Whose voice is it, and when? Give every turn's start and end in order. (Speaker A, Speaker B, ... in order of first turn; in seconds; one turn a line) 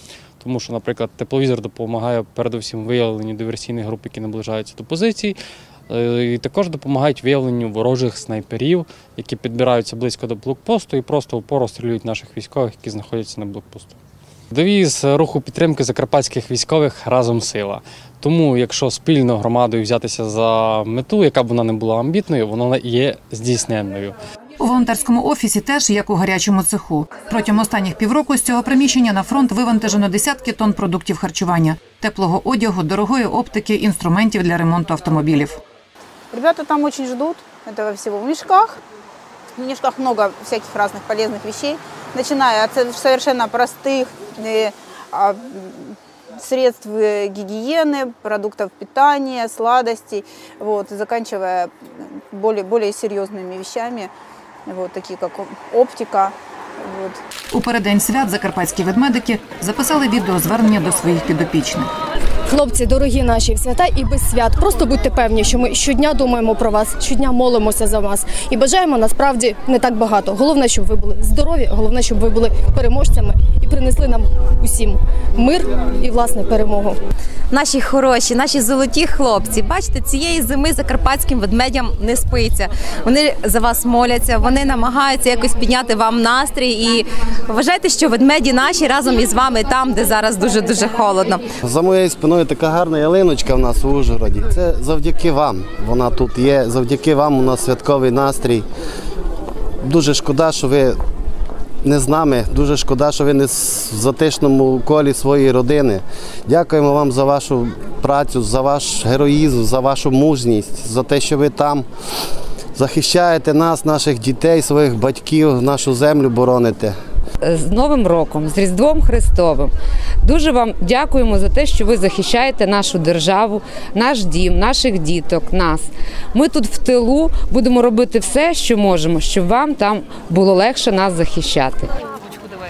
Speaker A: 0.4-5.3
Speaker A: 5.9-13.9
Speaker A: 14.5-24.2
Speaker B: 24.6-35.6
Speaker C: 36.3-38.8
Speaker C: 39.5-54.1
Speaker C: 54.6-57.2
Speaker B: 57.5-61.9
Speaker D: 62.5-77.0
Speaker E: 77.5-91.5
Speaker F: 91.6-98.6
Speaker F: 99.8-101.0
Speaker F: 101.8-111.8
Speaker F: 112.8-116.9
Speaker G: 117.4-119.7
Speaker G: 120.2-131.8